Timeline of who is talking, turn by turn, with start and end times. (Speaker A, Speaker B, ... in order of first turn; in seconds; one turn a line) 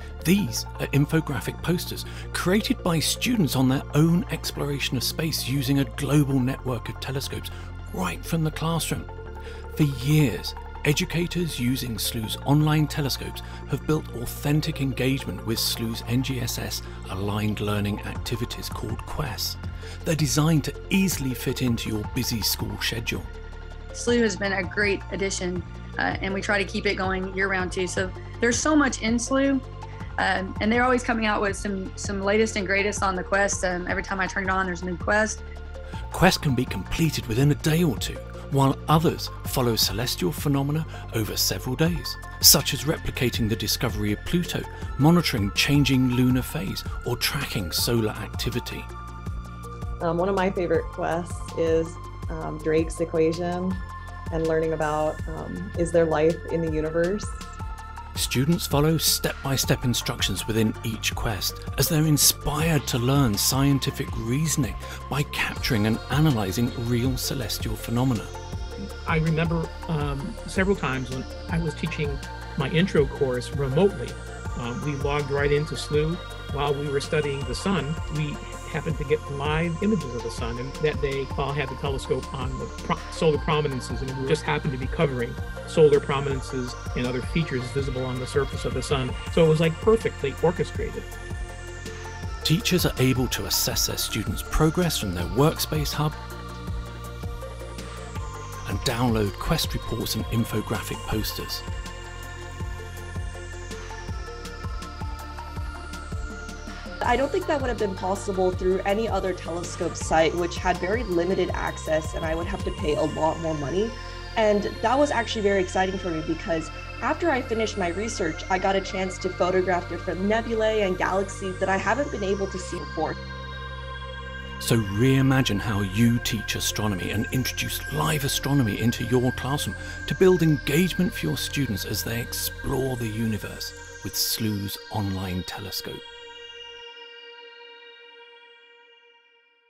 Speaker A: 0.2-9.1
Speaker A: 9.7-23.3
Speaker B: 23.9-29.6
Speaker B: 30.2-35.4
Speaker A: 36.1-48.9
Speaker C: 50.0-57.5
Speaker A: 58.1-68.3
Speaker D: 69.0-91.0
Speaker A: 92.4-96.2
Speaker A: 98.6-101.6
Speaker E: 107.0-123.2
Speaker A: 124.6-136.0